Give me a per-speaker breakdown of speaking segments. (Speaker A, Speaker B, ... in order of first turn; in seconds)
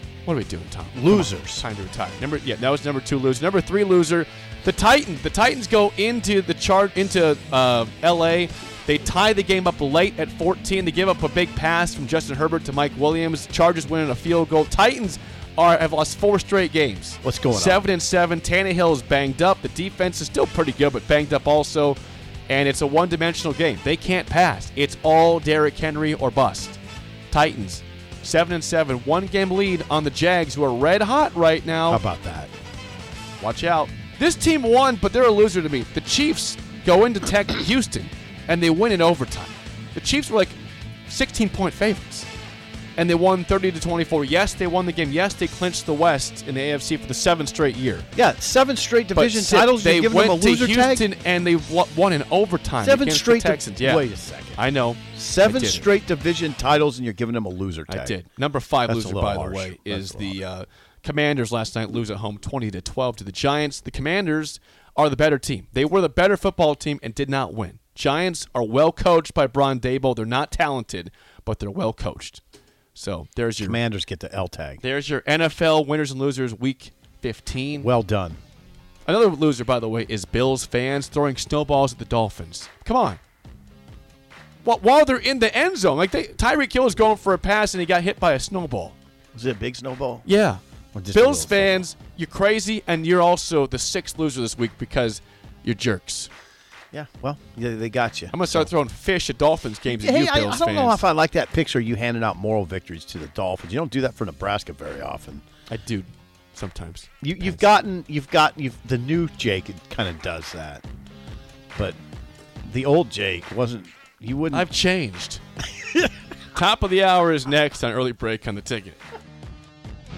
Speaker A: 0.3-26.8, 27.3-32.0, 33.4-42.3, 43.0-48.1, 49.1-55.9, 57.9-72.4, 73.0-73.8, 74.8-77.9, 79.1-83.2, 84.6-89.0, 90.2-90.6, 91.1-96.3, 98.3-101.0, 105.7-107.6, 114.5-115.4, 116.5-119.0
Speaker B: 0.9-1.6, 17.2-17.8, 31.9-32.5, 48.1-51.1, 52.8-58.2, 58.9-60.4, 73.6-74.8, 77.8-78.4, 89.3-90.3, 90.9-91.9, 96.9-98.7, 99.9-105.4, 107.2-110.8, 112.7-114.7